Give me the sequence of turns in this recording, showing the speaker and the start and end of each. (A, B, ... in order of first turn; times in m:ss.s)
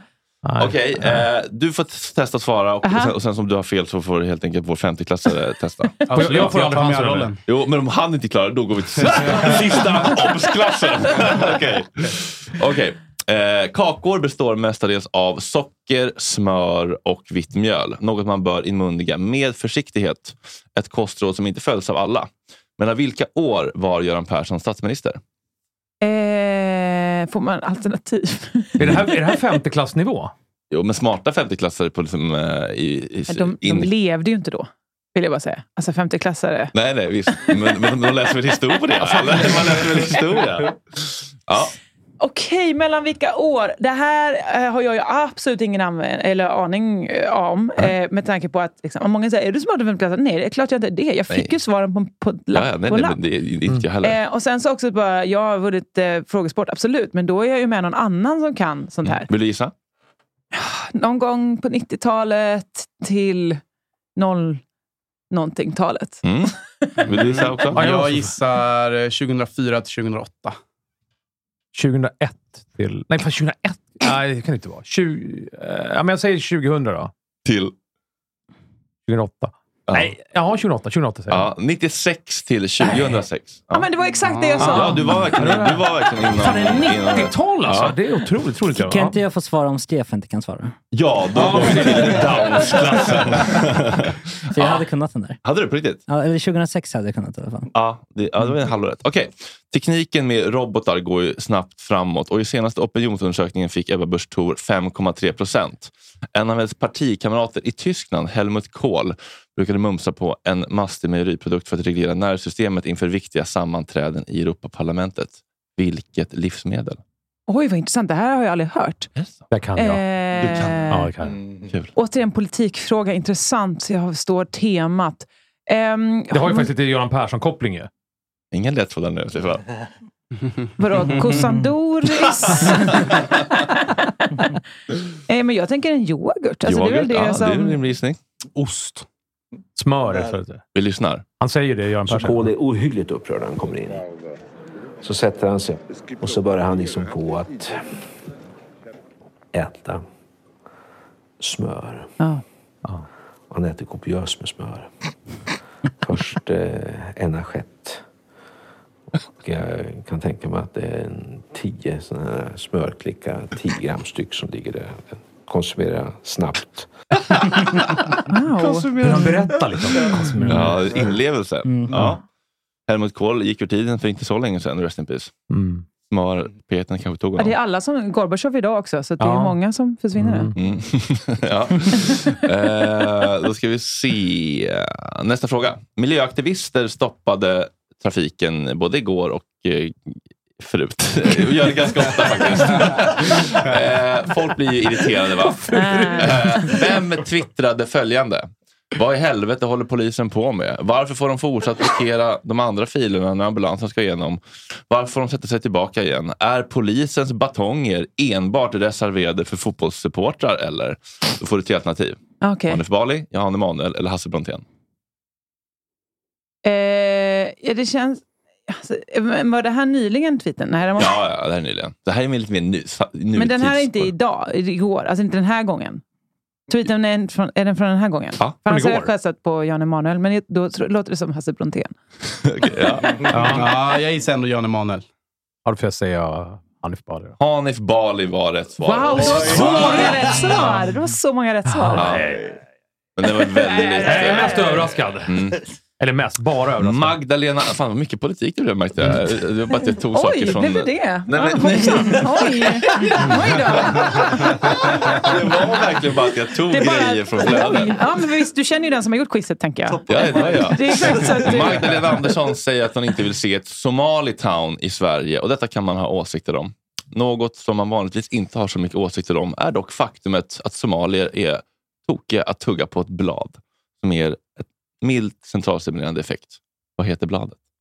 0:00.4-0:01.3 A
0:00.6-0:06.5 B
0:02.8-0:03.1 C
0:06.1-0:07.4 D
0:06.1-0:07.3 A
0:07.5-0:25.2 B
0:09.1-0:09.6 D
0:26.0-0:29.0 C
0:28.8-0:30.3 A
0:30.7-0:33.9 B
0:33.3-0:36.7 C
0:36.7-0:41.8 B
0:39.1-0:40.2 A
0:42.2-0:53.2 C
0:52.5-0:54.2 B
0:54.0-0:59.3 C
0:59.0-0:59.7 B
1:00.5-1:03.6 C
1:04.2-1:04.6 C
1:05.3-1:06.2 C
1:06.2-1:06.6 B
1:07.1-1:07.9 B
1:07.1-1:10.6 D
1:07.7-1:08.3 A
1:11.8-1:17.1 A
1:17.5-1:17.7 B
1:19.1-1:21.5 A
1:21.3-1:23.9 B
1:23.7-1:25.2 C
1:24.4-1:24.6 D
1:24.6-1:25.9 A
1:24.6-1:28.0 B
1:26.4-1:29.2 A
1:26.4-1:26.9 C
1:28.7-1:30.7 E
1:30.9-1:34.8 B
1:31.3-1:33.4 A
1:34.5-1:35.4 E
1:35.4-1:36.0 B
1:36.1-1:37.7 E
1:37.7-1:57.0 B
1:57.5-1:59.1 C
1:59.2-1:59.4 B
1:59.5-2:00.0 A
1:59.8-2:01.1 C
2:00.4-2:01.9 B
2:00.9-2:01.4 A
2:02.0-2:06.7 C
2:06.3-2:07.9 A
2:08.5-2:09.6 B
2:10.8-2:14.5 C
2:12.7-2:13.3 B
2:15.3-2:17.8 C
2:16.6-2:18.2 B
2:18.6-2:19.0 A
2:19.8-2:20.6 A
2:20.7-2:21.2 B
2:21.4-2:22.5 A
2:22.1-2:24.0 F
2:25.0-2:27.8 F
2:29.5-2:30.0 F
2:31.4-2:32.1 F
2:33.5-2:34.9 F
2:36.0-2:38.0 F
2:39.4-2:46.9 F
2:48.3-2:49.4 C
2:48.6-2:50.8 A
2:50.4-2:50.7 E
2:50.5-2:52.2 B
2:51.6-2:51.9 E
2:51.9-2:52.2 A
2:52.9-2:55.3 B
2:55.5-2:55.8 A
2:56.1-2:57.6 B
2:57.4-3:00.5 C
2:59.2-2:59.6 A
3:00.2-3:00.6 A
3:00.6-3:34.6 B
3:15.7-3:16.8 C
3:15.7-3:16.4 A
3:32.4-3:32.8 C
3:36.6-3:41.2 C
3:41.0-3:44.1 B
3:43.4-3:46.0 C
3:46.7-3:52.0 C
3:48.7-3:49.1 A
3:52.4-3:53.3 B
3:53.3-3:53.7 A
3:53.4-3:55.0 D
3:55.7-3:57.4 A
3:57.4-4:00.4 B
3:58.8-4:02.2 C
3:59.3-4:00.8 A
4:01.7-4:02.4 A
4:02.0-4:02.4 B
4:03.2-4:05.6 B
4:03.5-4:04.9 C
4:04.0-4:05.4 A
4:06.0-4:07.2 A
4:06.8-4:18.1 B
4:09.8-4:15.4 C
4:16.7-4:22.3 C
4:20.1-4:37.6 B